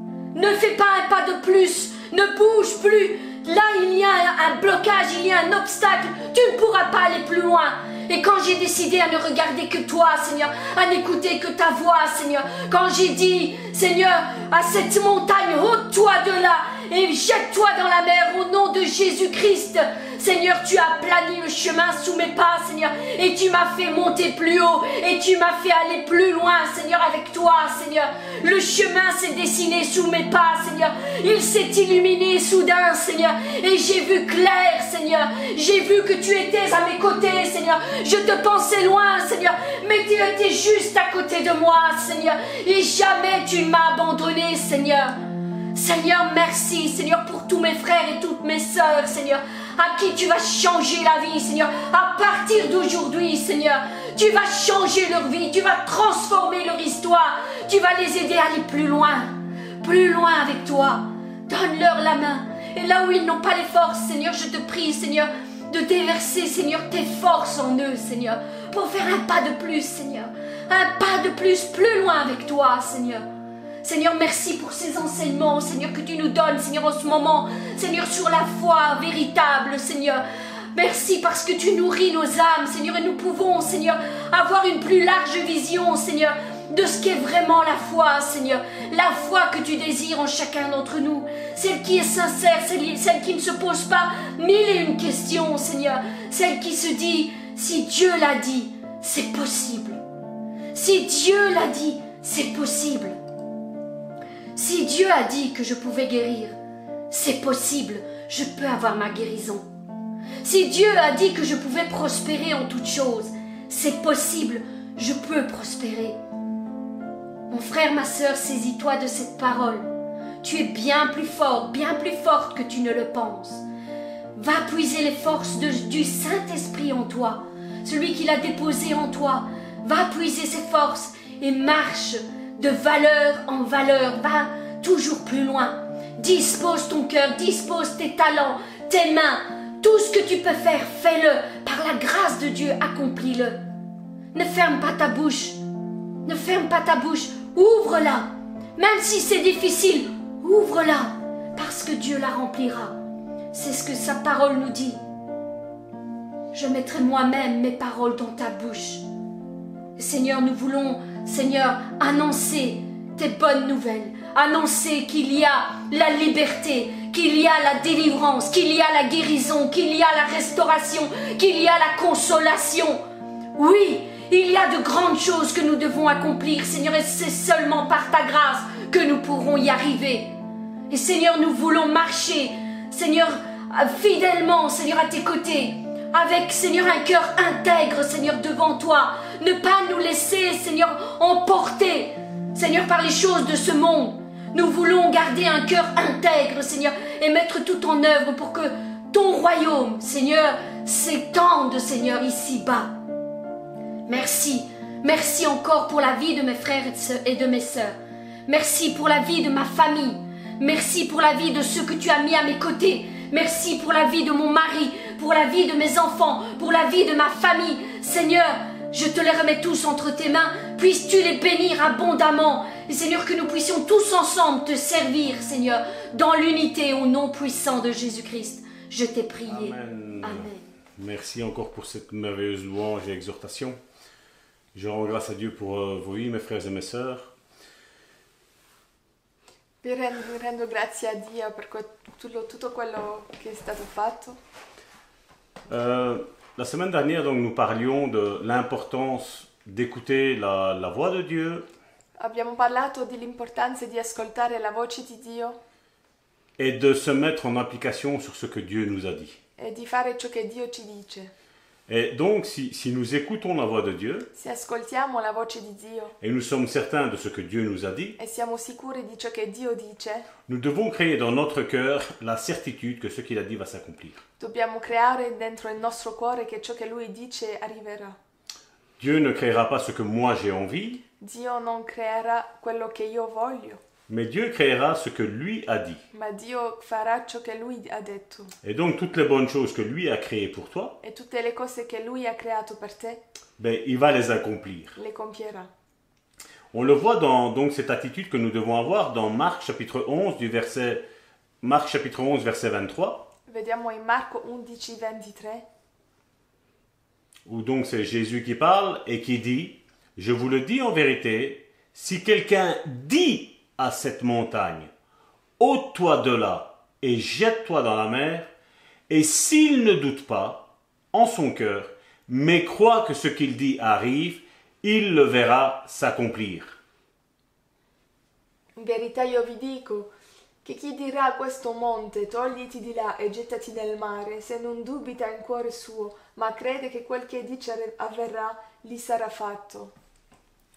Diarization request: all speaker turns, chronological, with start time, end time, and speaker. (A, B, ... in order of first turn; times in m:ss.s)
0:00.3-0:45.2 A
0:45.7-1:13.2 A
1:13.8-1:40.0 A
1:40.7-1:43.2 A
1:44.5-1:46.5 A
1:47.1-1:49.7 A
1:50.4-1:56.2 A
1:57.5-1:59.9 A
2:00.4-2:03.6 A
2:04.3-2:23.6 A
2:24.3-2:25.6 A
2:26.2-2:33.0 A
2:33.5-2:35.0 A
2:36.5-2:39.0 A
2:40.0-2:53.0 A
2:53.6-3:00.4 A
3:00.9-3:22.9 A
3:24.0-3:27.9 A
3:28.5-3:50.7 A
3:49.4-3:53.8 B
3:54.7-3:57.3 B
3:59.8-4:04.4 C
4:05.7-4:11.6 B
4:12.2-4:15.6 C
4:16.6-4:19.4 B
4:19.6-4:21.3 C
4:21.9-4:24.3 B
4:24.4-4:26.1 C
4:26.2-4:28.2 B
4:28.2-4:30.3 C
4:30.5-4:34.2 B
4:34.4-4:38.2 C
4:39.0-4:41.0 B
4:41.2-4:43.8 C
4:44.1-4:46.0 B
4:46.1-4:48.5 C
4:48.6-4:51.0 B
4:51.0-4:53.2 C
4:53.6-4:55.0 B
4:55.0-4:55.7 C
4:56.7-5:01.0 B
5:01.6-5:03.2 B
5:03.5-5:05.6 C
5:07.4-5:14.9 B
5:15.6-5:18.5 B
5:19.1-5:26.8 B
5:28.8-5:30.1 C
5:30.6-5:39.9 C